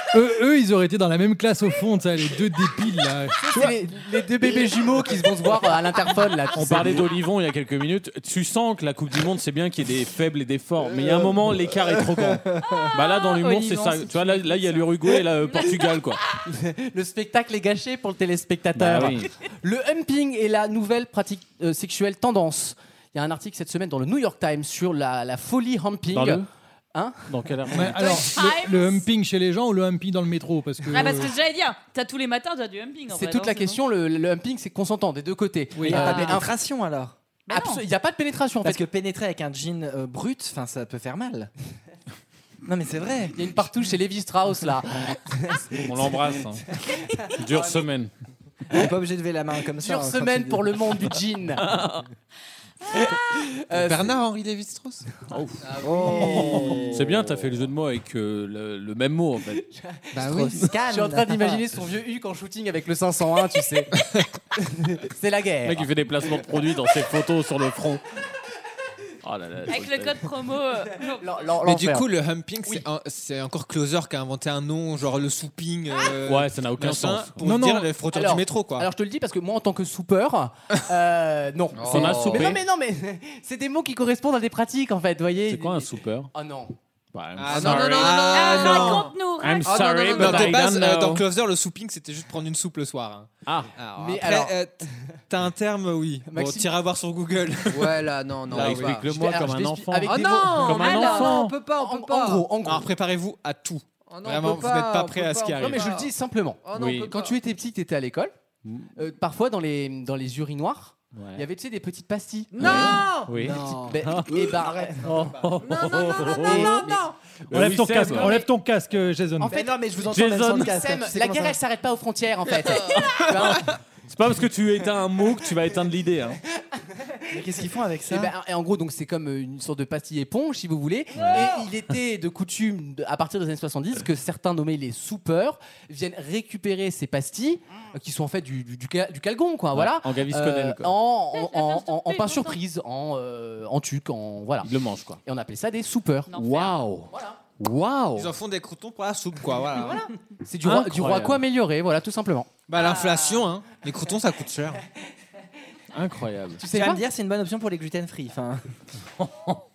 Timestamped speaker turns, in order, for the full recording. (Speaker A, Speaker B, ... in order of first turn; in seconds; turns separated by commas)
Speaker A: 0.1-3.8, Speaker B: 3.4-7.0, Speaker C: 6.5-16.2, Speaker B: 16.4-27.3, Speaker C: 18.7-19.3, Speaker C: 26.1-26.4, Speaker C: 27.3-28.2, Speaker A: 27.7-31.3, Speaker D: 28.0-29.1, Speaker D: 30.9-33.8, Speaker B: 33.1-36.5, Speaker E: 35.8-37.1, Speaker D: 35.9-36.4, Speaker D: 37.5-37.8, Speaker B: 37.5-38.8, Speaker E: 38.6-41.5, Speaker E: 42.6-43.4, Speaker B: 43.3-47.6, Speaker C: 45.8-46.6, Speaker C: 47.4-48.1, Speaker E: 48.7-50.7, Speaker B: 49.8-51.6, Speaker C: 51.6-52.0, Speaker B: 52.9-54.2, Speaker F: 53.7-55.0, Speaker C: 55.3-59.6, Speaker B: 55.6-57.0, Speaker E: 55.8-56.9, Speaker B: 59.7-63.9, Speaker E: 60.1-61.5, Speaker B: 64.5-65.9, Speaker C: 65.6-68.0, Speaker C: 69.2-70.3, Speaker D: 69.7-71.3, Speaker B: 71.2-72.1, Speaker F: 71.6-78.9, Speaker C: 76.2-77.3, Speaker A: 77.4-77.9, Speaker B: 78.1-86.7, Speaker G: 81.7-82.5, Speaker C: 81.8-82.6, Speaker C: 85.5-86.3, Speaker C: 87.1-88.8, Speaker F: 87.4-89.1, Speaker G: 87.5-89.1, Speaker D: 88.3-90.0, Speaker C: 89.4-91.2, Speaker G: 89.6-90.5, Speaker F: 90.2-97.9, Speaker C: 93.5-93.7, Speaker B: 94.0-94.9, Speaker B: 96.3-96.7, Speaker G: 97.7-99.0, Speaker C: 98.5-101.5, Speaker F: 98.5-98.9, Speaker B: 98.8-102.9, Speaker G: 100.1-102.5, Speaker D: 100.8-101.3, Speaker F: 102.6-105.9, Speaker G: 104.1-106.1, Speaker B: 105.6-108.3, Speaker G: 106.6-107.3, Speaker C: 106.8-107.2, Speaker B: 109.0-115.3, Speaker C: 111.1-111.4, Speaker G: 112.5-113.7, Speaker C: 112.6-114.5, Speaker C: 115.0-116.8, Speaker G: 115.7-116.1, Speaker B: 116.2-117.1, Speaker C: 117.5-118.4, Speaker A: 117.5-119.6, Speaker B: 118.1-118.4, Speaker B: 119.4-119.7, Speaker E: 119.4-121.5, Speaker C: 120.1-120.8, Speaker B: 120.4-123.7, Speaker C: 123.2-123.6, Speaker C: 124.1-126.4, Speaker E: 127.3-128.3, Speaker B: 128.1-144.7, Speaker C: 131.2-131.5, Speaker C: 139.7-140.9, Speaker D: 141.3-142.6, Speaker C: 144.6-145.2, Speaker B: 145.2-147.6, Speaker D: 146.3-146.8, Speaker F: 148.1-150.0, Speaker B: 149.8-152.5, Speaker C: 150.6-151.4, Speaker F: 152.7-154.8, Speaker D: 152.7-153.5, Speaker C: 155.9-156.6, Speaker B: 156.6-157.0, Speaker E: 156.7-158.6, Speaker C: 159.2-159.6